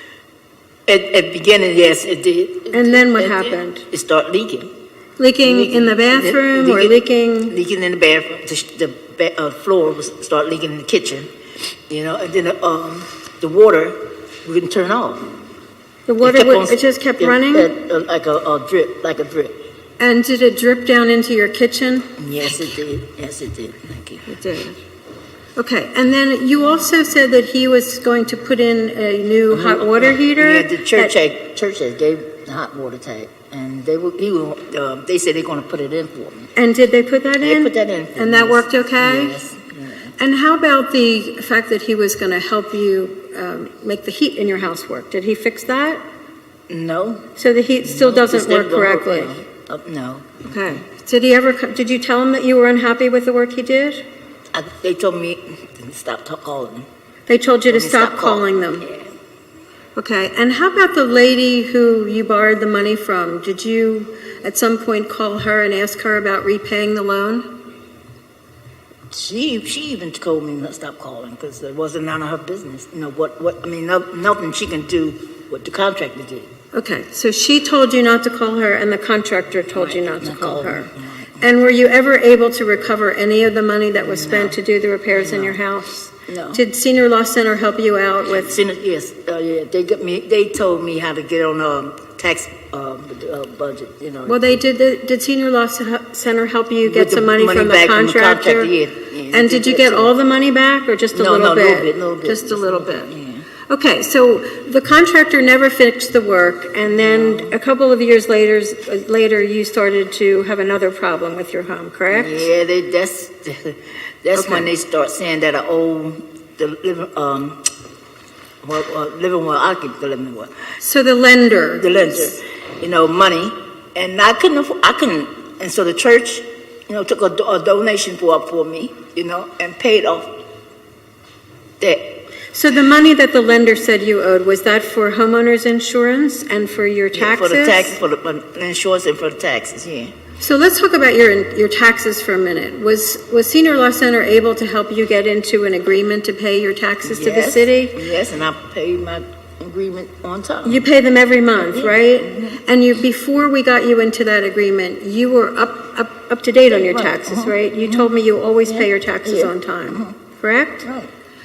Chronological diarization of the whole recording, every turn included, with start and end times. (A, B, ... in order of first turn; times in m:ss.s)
0:00.9-0:04.7 A
0:02.7-0:03.8 B
0:05.2-0:07.6 B
0:05.4-0:11.3 A
0:11.9-0:15.3 A
0:16.1-0:17.7 B
0:16.2-0:19.6 A
0:20.0-0:22.1 B
0:22.2-0:24.3 A
0:24.3-0:24.8 B
0:25.6-0:31.1 B
0:29.5-0:36.5 A
0:36.6-0:39.4 B
0:37.4-0:40.2 A
0:40.2-0:46.0 B
0:46.7-0:47.3 A
0:47.4-0:49.4 B
0:47.8-0:50.8 A
0:50.4-0:54.0 B
0:54.5-0:56.9 A
0:57.3-0:58.9 B
0:57.7-0:59.1 A
1:00.0-1:07.5 B
1:09.1-1:16.5 A
1:16.7-1:20.9 B
1:19.8-1:21.4 A
1:21.4-1:28.6 B
1:24.0-1:24.6 A
1:25.2-1:25.6 A
1:26.3-1:26.6 A
1:28.3-1:34.4 A
1:34.3-1:38.7 B
1:36.8-1:40.1 A
1:39.3-1:43.1 B
1:41.1-1:43.4 A
1:43.7-1:52.5 B
1:46.8-1:47.6 A
1:52.1-1:57.7 A
1:54.4-1:54.7 B
1:58.6-2:00.5 A
2:00.8-2:02.3 B
2:01.8-2:10.4 A
2:11.8-2:12.2 A
2:12.5-2:18.0 B
2:17.1-2:20.1 A
2:20.4-2:28.0 B
2:27.0-2:30.9 A
2:30.6-2:40.9 B
2:31.6-2:32.6 A
2:36.7-2:40.2 A
2:40.8-2:41.1 A